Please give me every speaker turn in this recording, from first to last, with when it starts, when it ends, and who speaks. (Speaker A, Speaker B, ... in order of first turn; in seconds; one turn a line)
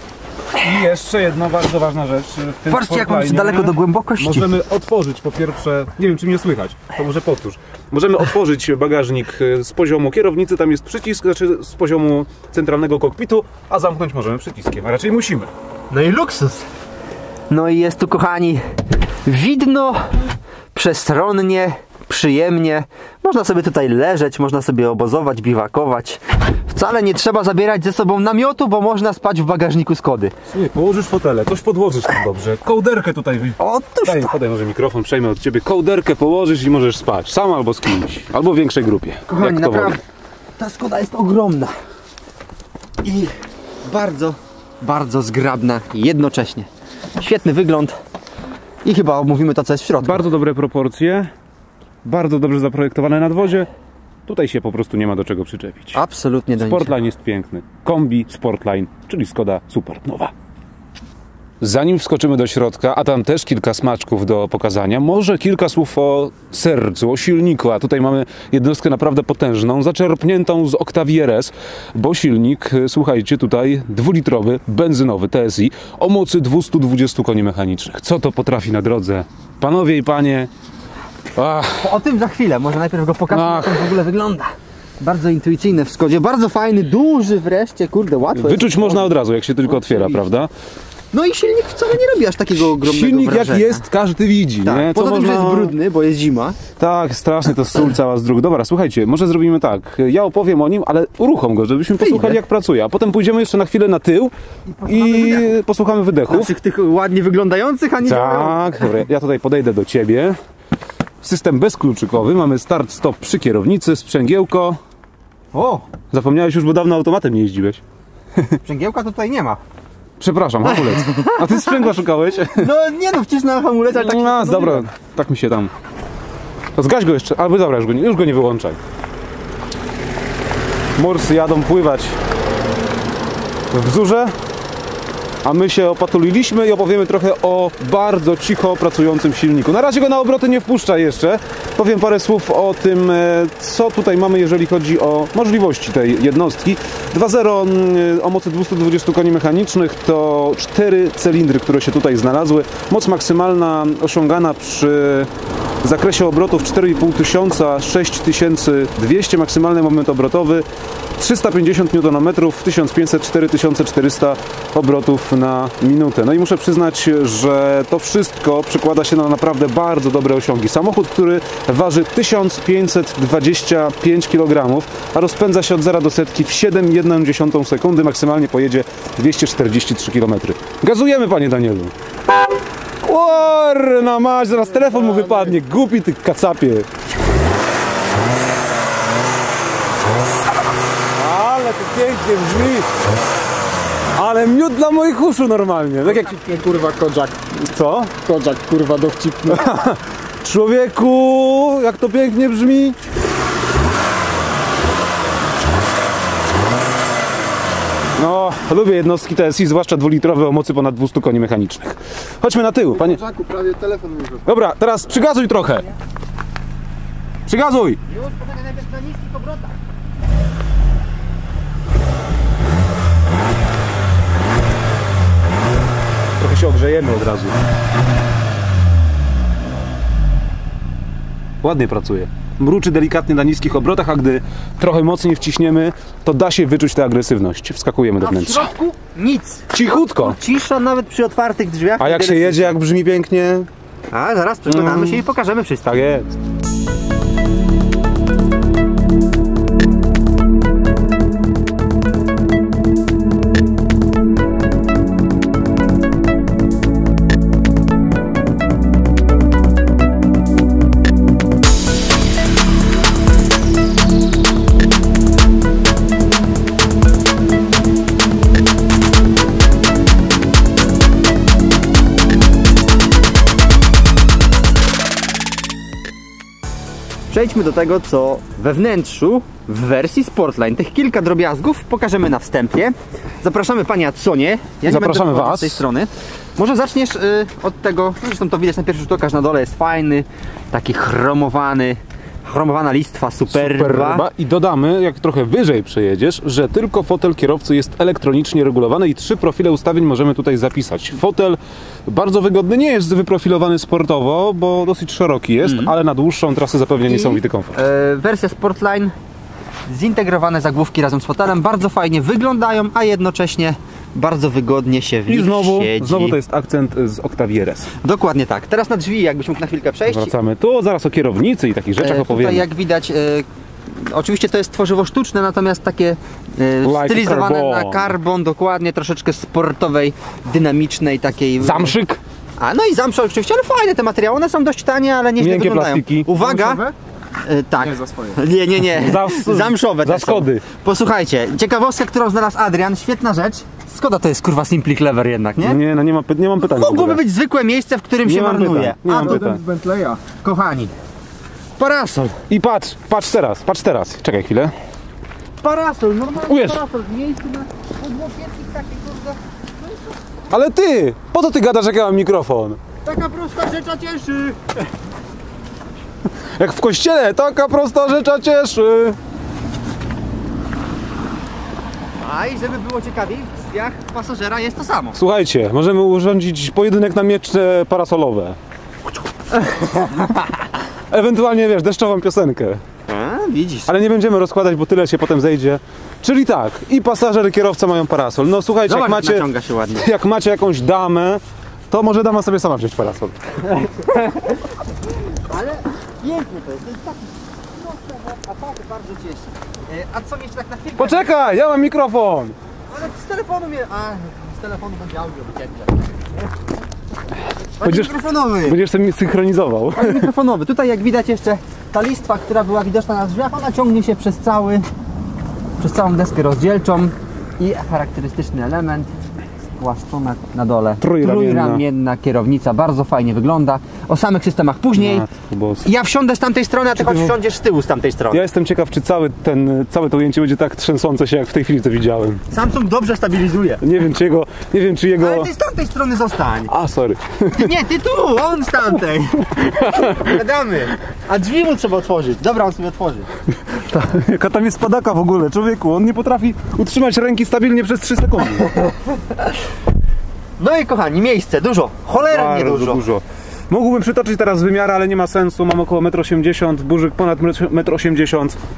Speaker A: 0.6-15.5
Speaker B: 2.7-4.5
Speaker B: 15.9-16.7
Speaker B: 17.5-18.6
Speaker B: 19.2-20.2
Speaker B: 20.7-30.3
Speaker A: 30.5-40.0
Speaker B: 33.6-34.3
Speaker B: 39.3-40.0
Speaker B: 40.6-41.7
Speaker B: 43.0-43.3
Speaker B: 43.8-48.0
Speaker B: 48.8-50.3
Speaker A: 50.0-51.3
Speaker A: 52.0-53.7
Speaker A: 54.2-56.0
Speaker B: 55.9-56.9
Speaker A: 56.6-60.3
Speaker A: 61.6-80.5
Speaker A: 81.3-81.9
Speaker B: 81.8-89.1
Speaker A: 83.3-84.0
Speaker A: 88.3-90.5
Speaker B: 89.7-90.2
Speaker B: 91.1-93.8
Speaker A: 92.6-95.7
Speaker B: 94.6-96.6
Speaker A: 96.8-104.3
Speaker B: 102.0-102.4
Speaker B: 104.7-105.5
Speaker A: 104.8-106.5
Speaker B: 106.3-108.9
Speaker A: 108.0-110.3
Speaker A: 111.2-114.8
Speaker B: 115.5-115.8
Speaker A: 116.1-117.8
Speaker B: 118.6-119.6
Speaker A: 120.2-122.7
Speaker B: 120.6-121.9
Speaker B: 122.5-124.9
Speaker A: 123.9-125.7
Speaker A: 126.7-128.8
Speaker A: 131.0-132.2
Speaker A: 133.7-134.3
Speaker A: 135.4-155.3
Speaker A: 155.8-160.6
Speaker A: 161.2-181.9
Speaker A: 183.0-186.9
Speaker A: 191.2-192.9
Speaker A: 194.2-196.3
Speaker B: 196.1-196.7
Speaker C: 196.2-197.4
Speaker A: 197.6-198.2
Speaker C: 198.2-199.8
Speaker A: 199.5-203.0
Speaker A: 208.2-213.2
Speaker C: 212.9-214.5
Speaker A: 214.4-215.9
Speaker A: 217.4-218.0
Speaker B: 218.1-219.8
Speaker A: 226.4-227.6
Speaker A: 231.6-238.7
Speaker B: 238.2-242.8
Speaker A: 239.7-240.4
Speaker A: 242.0-243.7
Speaker B: 244.1-246.1
Speaker A: 244.7-245.3
Speaker A: 245.8-246.3
Speaker B: 277.3-294.2
Speaker A: 284.8-285.8
Speaker A: 293.5-307.8
Speaker B: 305.6-305.9
Speaker B: 307.1-309.1
Speaker B: 309.9-316.4
Speaker A: 315.3-317.9
Speaker B: 318.0-320.3
Speaker A: 320.1-322.7
Speaker B: 322.0-331.9
Speaker A: 326.8-328.1
Speaker A: 331.6-332.2
Speaker B: 332.6-336.8
Speaker A: 335.4-336.7
Speaker C: 336.4-336.9
Speaker B: 337.4-345.8
Speaker C: 337.8-338.4
Speaker A: 338.9-340.6
Speaker A: 345.6-347.2
Speaker B: 346.6-349.5
Speaker A: 348.2-349.6
Speaker C: 349.1-350.2
Speaker B: 350.2-350.9
Speaker B: 351.8-352.4
Speaker A: 352.5-354.7
Speaker B: 355.6-360.2
Speaker A: 356.5-356.8
Speaker A: 360.5-362.8
Speaker B: 363.0-364.8
Speaker A: 366.6-369.2
Speaker B: 372.2-375.2
Speaker A: 375.1-378.6
Speaker A: 379.6-380.4
Speaker A: 381.1-382.8
Speaker B: 383.1-383.9
Speaker A: 383.9-393.9
Speaker B: 388.9-390.1
Speaker B: 394.0-394.5
Speaker B: 395.4-401.3
Speaker A: 401.0-402.6
Speaker B: 402.9-406.3
Speaker B: 407.8-408.8
Speaker A: 407.8-410.3
Speaker B: 409.9-414.9
Speaker B: 415.8-419.1
Speaker B: 419.8-425.2
Speaker A: 421.0-421.8
Speaker A: 425.0-425.8
Speaker B: 425.8-428.4
Speaker A: 426.9-427.4
Speaker A: 428.3-432.4
Speaker B: 432.5-433.8
Speaker A: 433.8-435.5
Speaker B: 435.2-436.7
Speaker A: 436.7-437.7
Speaker B: 437.5-443.3
Speaker A: 439.7-440.3
Speaker A: 443.7-448.7
Speaker B: 450.6-453.0
Speaker A: 452.2-458.6